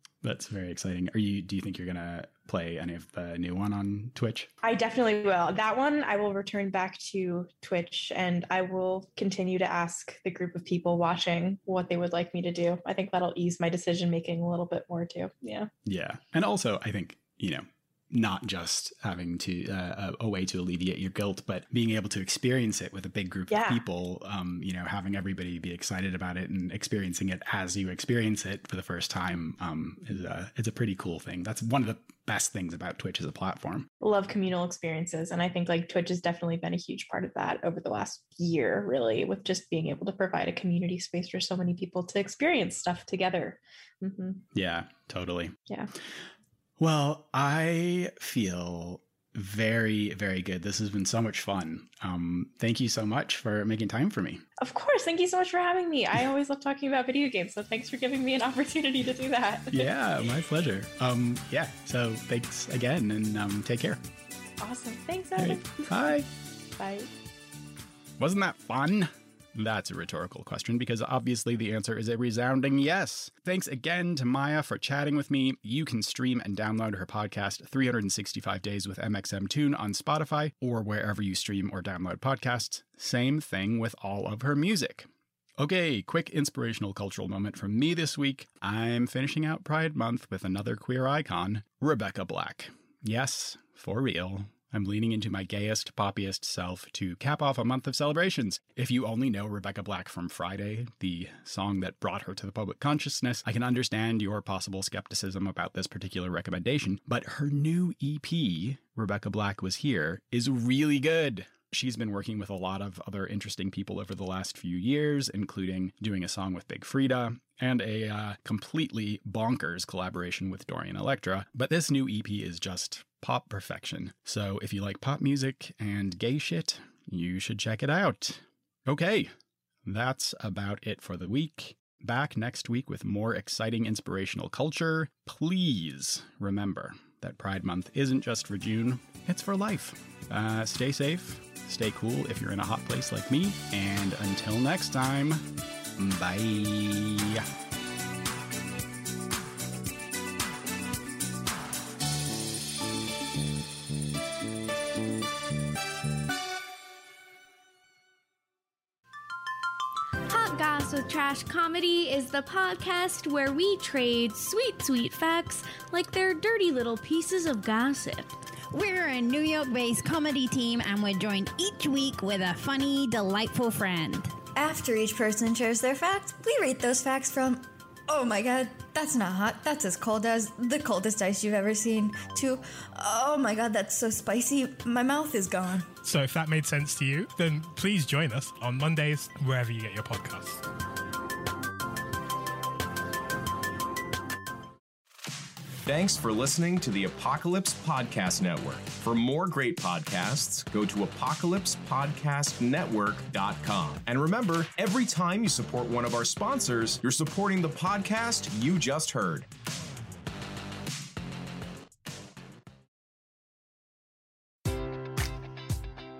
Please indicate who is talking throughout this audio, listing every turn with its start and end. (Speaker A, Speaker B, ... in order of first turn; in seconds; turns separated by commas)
Speaker A: 0.2-4.5, Speaker B: 4.6-15.7, Speaker A: 15.8-33.9, Speaker B: 23.5-23.8, Speaker B: 34.0-44.4, Speaker A: 44.5-45.5, Speaker A: 46.8-54.4, Speaker B: 54.6-59.9, Speaker A: 59.7-64.0, Speaker B: 64.6-65.9, Speaker A: 65.4-66.3, Speaker B: 66.8-67.1, Speaker A: 68.2-85.1, Speaker A: 85.6-129.3, Speaker A: 129.8-145.4, Speaker A: 146.0-147.5, Speaker C: 160.3-168.3, Speaker D: 168.7-174.3, Speaker E: 174.5-185.9, Speaker F: 186.0-190.6, Speaker G: 195.8-209.5